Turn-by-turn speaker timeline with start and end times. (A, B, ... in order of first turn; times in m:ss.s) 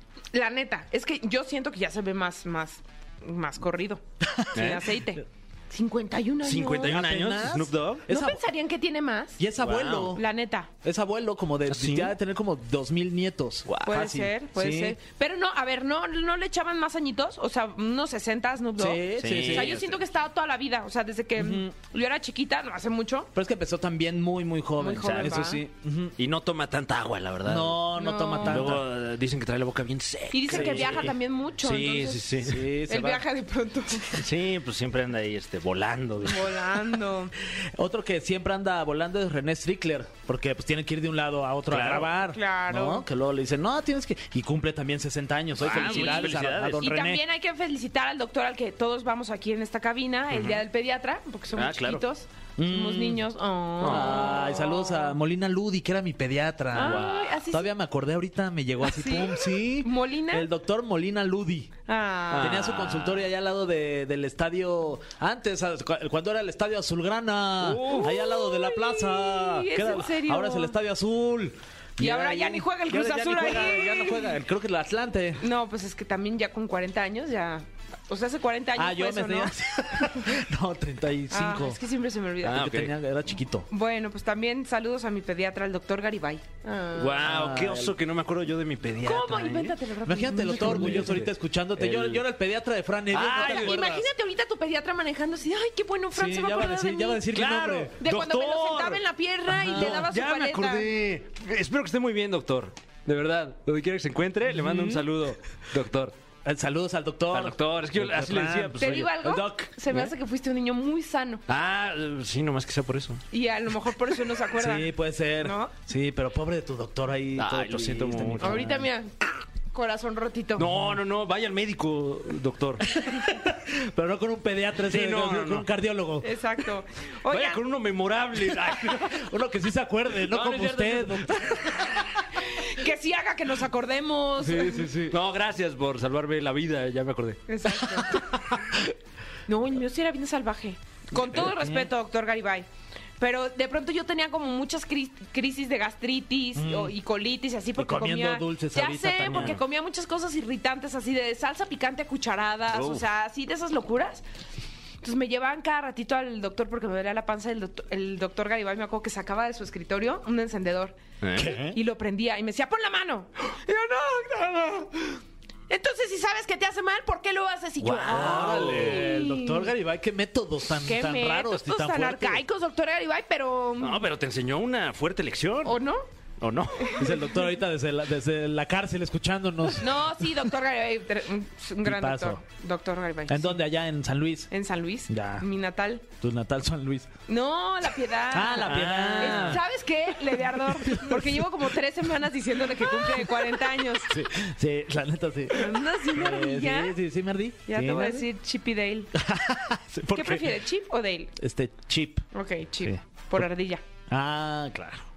0:00.3-0:04.0 A
0:04.2-0:04.5 B
0:04.5-0:07.0 A
0:04.6-0:04.9 C
0:06.4-0:08.1 C
0:06.8-0:08.4 B
0:08.1-0:09.4 A
0:09.4-0:10.2 B
0:09.6-0:10.2 C
0:10.2-0:10.7 A
0:10.8-0:15.0 B
0:11.7-0:12.1 C
0:13.7-0:14.0 C
0:13.8-0:23.3 A
0:18.8-0:19.8 B
0:19.2-0:20.0 C
0:21.4-0:21.7 B
0:23.4-0:26.1 B
0:24.8-0:25.6 A
0:25.0-0:25.4 C
0:26.2-0:27.8 C
0:27.5-0:28.8 B
0:28.0-0:28.8 A
0:28.4-0:32.6 C
0:30.3-0:32.4 A
0:30.5-0:31.1 B
0:32.4-0:33.3 B
0:32.9-0:34.3 A
0:34.1-0:36.8 C
0:36.2-0:37.3 A
0:37.8-0:47.2 B
0:41.7-0:42.1 C
0:42.2-0:43.0 A
0:45.6-0:46.9 C
0:45.6-0:55.1 A
0:50.3-0:50.6 C
0:51.5-0:52.0 C
0:52.6-0:53.2 B
0:53.8-0:54.3 C
0:53.8-1:01.7 B
0:56.7-0:57.7 A
0:56.8-0:57.4 C
0:58.9-1:00.5 A
1:01.9-1:02.6 A
1:02.3-1:03.2 C
1:02.4-1:15.4 B
1:07.6-1:08.2 C
1:07.8-1:10.7 A
1:12.0-1:14.4 A
1:15.4-1:20.3 A
1:18.8-1:21.8 B
1:21.3-1:22.6 A
1:22.4-1:22.9 C
1:22.4-1:23.7 B
1:23.7-1:27.2 A
1:27.0-1:29.8 C
1:27.2-1:27.9 B
1:29.0-1:31.2 A
1:30.0-1:34.1 B
1:30.4-1:32.2 C
1:33.1-1:33.8 C
1:33.4-1:37.2 A
1:36.2-1:37.9 B
1:37.3-1:46.1 C
1:38.0-1:40.9 A
1:39.5-1:40.0 B
1:44.5-1:45.1 B
1:46.4-1:50.1 B
1:47.3-1:49.1 C
1:48.8-1:51.4 A
1:51.5-1:53.2 C
1:53.3-1:54.9 A
1:54.6-1:58.9 B
1:55.4-1:55.7 A
1:57.4-1:58.7 C
1:58.4-2:00.6 A
2:00.6-2:02.8 C
2:02.9-2:06.3 B
2:04.9-2:05.7 C
2:06.2-2:07.6 A
2:07.3-2:09.2 C
2:09.0-2:11.8 B
2:10.1-2:11.4 C
2:11.6-2:14.9 A
2:14.4-2:15.1 B
2:14.7-2:17.4 C
2:17.5-2:18.2 A
2:18.0-2:18.8 B
2:19.5-2:22.7 A
2:21.2-2:21.9 B
2:23.2-2:34.2 A
2:26.6-2:26.9 B
2:27.8-2:29.6 B
2:29.3-2:29.6 C
2:32.7-2:33.0 C
2:35.0-2:41.0 A
2:41.2-2:41.6 C
2:41.4-2:41.8 B
2:41.7-2:49.7 A
2:47.8-2:49.1 C
2:48.1-2:52.4 B
2:50.7-2:54.1 A
2:53.8-2:55.8 C
2:55.6-2:56.1 A
2:56.4-2:57.0 C
2:56.8-2:57.2 A
2:57.0-3:00.3 B
2:59.8-3:03.6 A
3:01.8-3:02.4 B
3:03.3-3:04.5 B
3:04.5-3:06.0 A
3:05.1-3:05.4 B
3:06.2-3:07.1 B
3:07.3-3:14.2 A
3:08.3-3:09.6 B
3:08.7-3:09.6 C
3:10.8-3:11.4 B
3:12.9-3:13.3 B
3:14.1-3:18.3 B
3:15.5-3:17.0 A
3:17.7-3:19.1 A
3:19.2-3:20.5 B
3:20.1-3:21.3 A
3:21.4-3:22.2 B
3:22.3-3:23.8 A
3:24.1-3:25.1 B